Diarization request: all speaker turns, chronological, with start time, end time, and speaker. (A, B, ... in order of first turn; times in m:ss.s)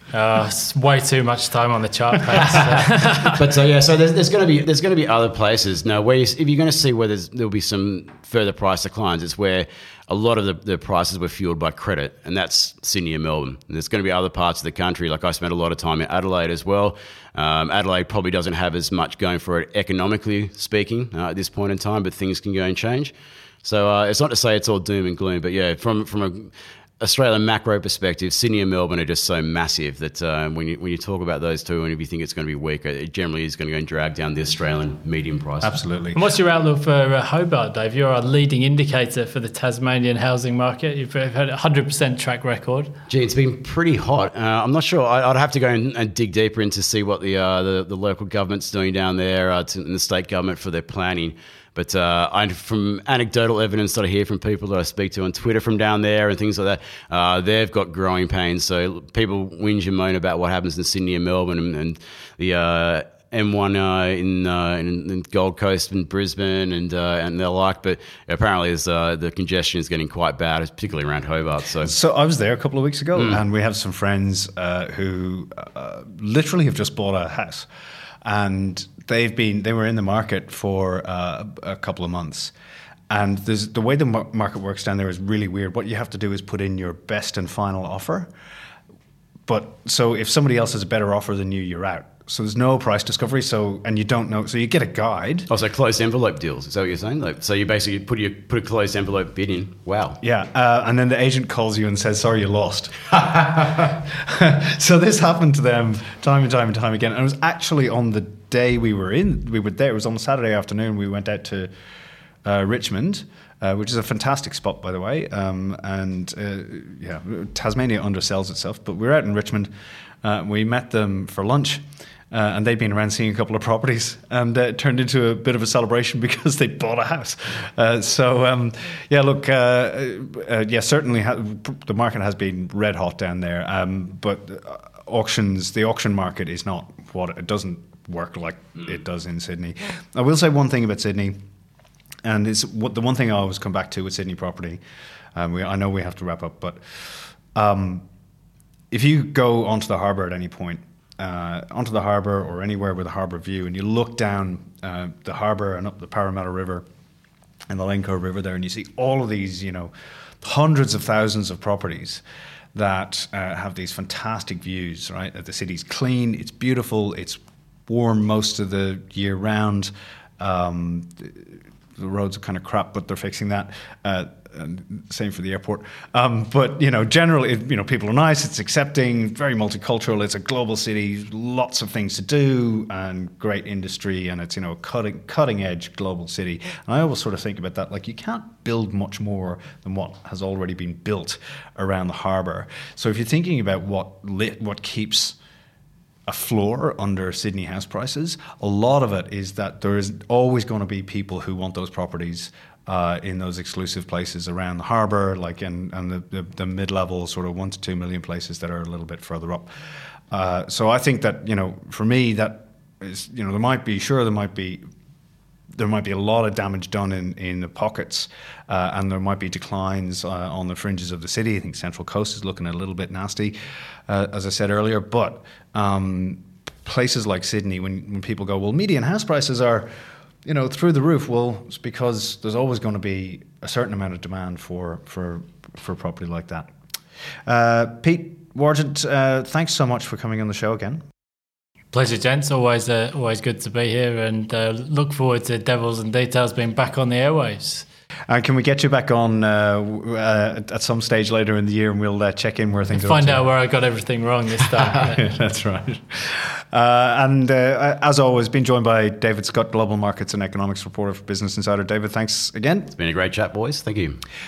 0:00.1-0:03.4 A
0:03.2-0:35.8 B
0:35.6-0:36.2 C
0:36.2-0:42.9 A
0:43.1-1:11.9 B
1:11.8-1:17.7 C
1:13.2-1:13.4 B
1:18.2-1:22.5 C
1:23.1-1:28.3 C
1:29.5-1:35.5 C
1:35.5-1:40.2 B
1:40.2-1:51.7 C
1:52.4-1:59.7 C
2:00.2-2:21.4 C
2:22.2-2:24.8 C
2:25.4-2:28.0 C
2:28.9-2:36.9 C
2:37.7-2:42.2 C
2:42.7-3:15.4 C
3:16.3-3:34.8 C
3:35.8-3:43.6 C
3:44.1-3:49.9 C
3:50.4-3:56.7 C
3:57.5-4:01.0 C
4:01.9-4:07.9 A
4:08.3-4:13.4 C
4:12.9-4:15.3 A
4:14.8-4:22.9 C
4:23.0-4:24.2 B